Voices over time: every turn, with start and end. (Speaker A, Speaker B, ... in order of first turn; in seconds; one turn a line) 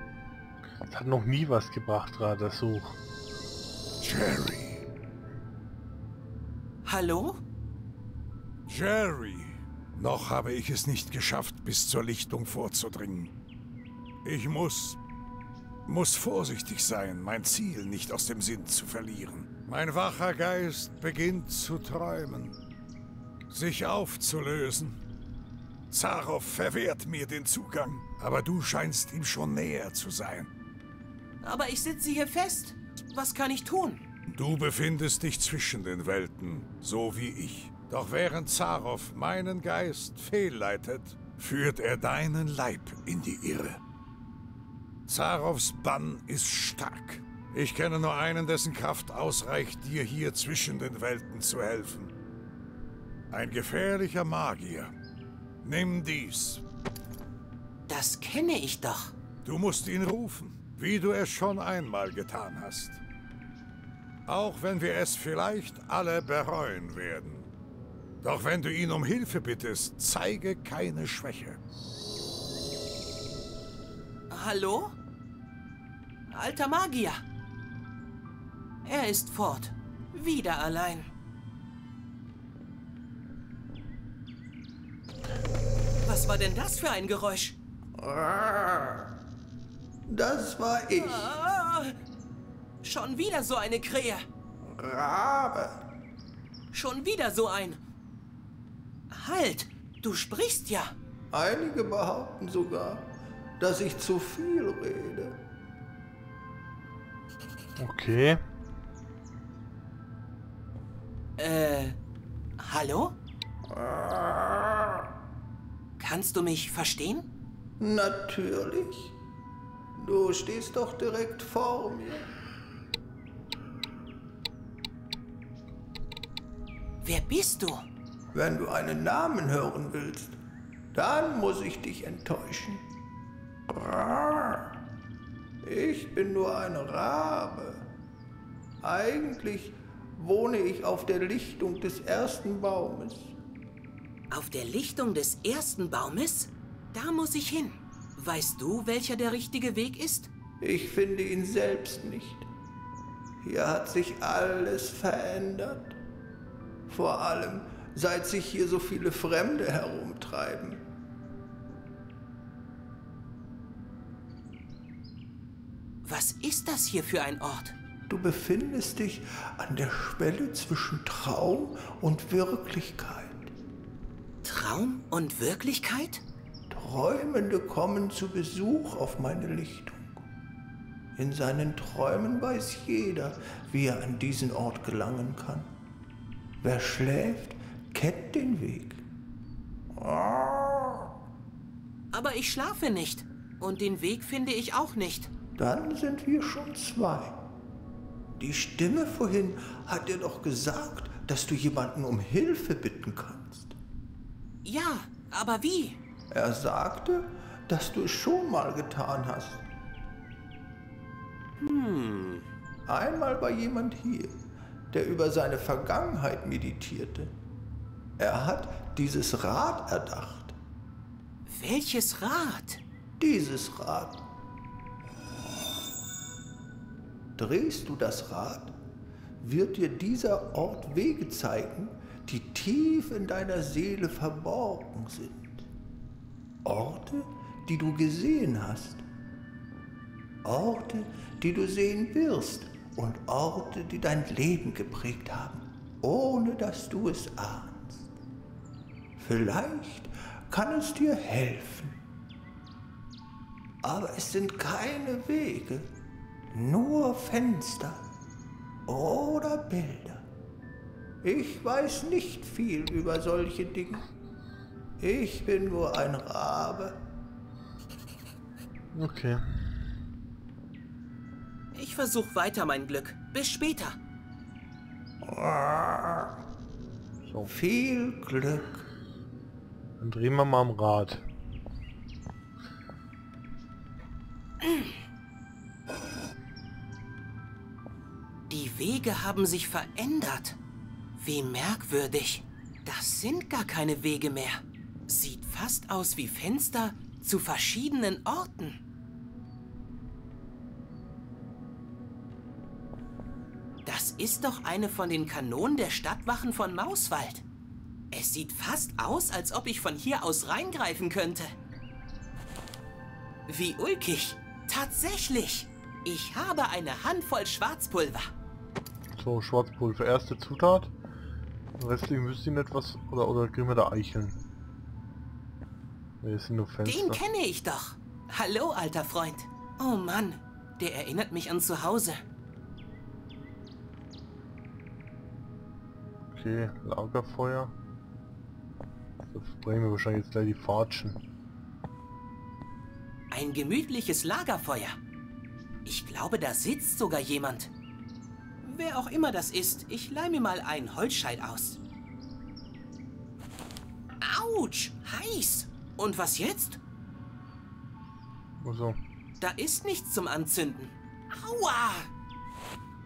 Speaker A: 0.8-3.0
Speaker B: 4.0-4.8
Speaker C: 6.8-7.4
Speaker B: 8.7-13.3
Speaker B: 14.2-15.0
Speaker B: 15.9-22.6
Speaker B: 23.5-25.0
Speaker B: 25.9-30.5
Speaker C: 31.4-34.0
Speaker B: 34.3-43.8
Speaker B: 45.1-52.1
Speaker B: 53.3-54.9
Speaker B: 55.6-56.6
Speaker C: 57.9-59.1
Speaker B: 59.4-63.0
Speaker B: 64.3-67.5
Speaker B: 68.2-71.6
Speaker C: 74.3-75.0
Speaker C: 76.3-77.2
Speaker C: 78.8-81.1
Speaker C: 86.0-87.6
Speaker D: 88.0-89.1
Speaker D: 90.1-91.3
Speaker C: 91.0-92.0
Speaker C: 92.8-94.2
Speaker D: 94.6-95.8
Speaker C: 96.7-97.8
Speaker C: 99.1-101.0
Speaker D: 101.3-105.4
Speaker A: 107.8-108.4
Speaker C: 111.4-112.0
Speaker C: 112.6-113.2
Speaker D: 113.7-114.9
Speaker C: 116.0-117.3
Speaker D: 117.8-119.1
Speaker D: 120.0-122.3
Speaker C: 127.0-127.8
Speaker D: 128.3-130.3
Speaker D: 130.9-132.8
Speaker D: 133.7-134.7
Speaker D: 135.6-137.8
Speaker D: 138.8-143.4
Speaker C: 144.3-150.3
Speaker D: 150.6-152.5
Speaker D: 153.4-156.0
Speaker D: 156.9-160.8
Speaker C: 166.0-167.8
Speaker D: 168.1-173.5
Speaker C: 174.4-176.2
Speaker D: 176.7-180.2
Speaker D: 181.2-185.7
Speaker D: 186.6-189.0
Speaker D: 189.9-191.1
Speaker C: 192.1-195.3
Speaker D: 195.6-197.3
Speaker D: 198.4-203.8
Speaker C: 204.6-206.0
Speaker D: 206.3-209.6
Speaker C: 211.6-212.4
Speaker D: 212.9-214.4
Speaker D: 214.9-217.3
Speaker D: 218.2-220.5
Speaker C: 221.5-222.8
Speaker D: 223.2-224.2
Speaker D: 227.4-228.7
Speaker D: 229.4-235.7
Speaker D: 236.6-239.0
Speaker D: 240.4-248.1
Speaker D: 249.2-252.0
Speaker D: 253.8-255.9
Speaker D: 256.5-258.0
Speaker D: 258.9-260.2
Speaker D: 261.2-264.1
Speaker D: 265.0-267.0
Speaker A: 268.9-269.8
Speaker C: 271.7-274.0
Speaker D: 275.2-276.4
Speaker A: 277.2-277.5
Speaker D: 277.5-278.8
Speaker A: 280.0-281.2
Speaker C: 288.5-290.6
Speaker C: 291.2-298.8
Speaker C: 303.9-307.4
Speaker C: 308.1-311.6
Speaker C: 313.5-318.3
Speaker A: 319.1-320.9
Speaker A: 321.8-324.4
Speaker A: 326.2-327.2
Speaker C: 326.9-332.2
Speaker A: 336.3-337.7
Speaker A: 339.3-341.2
Speaker C: 343.3-345.0
Speaker C: 345.9-347.7
Speaker C: 348.6-351.8
Speaker C: 354.2-356.8
Speaker A: 358.6-359.0
Speaker C: 359.4-362.1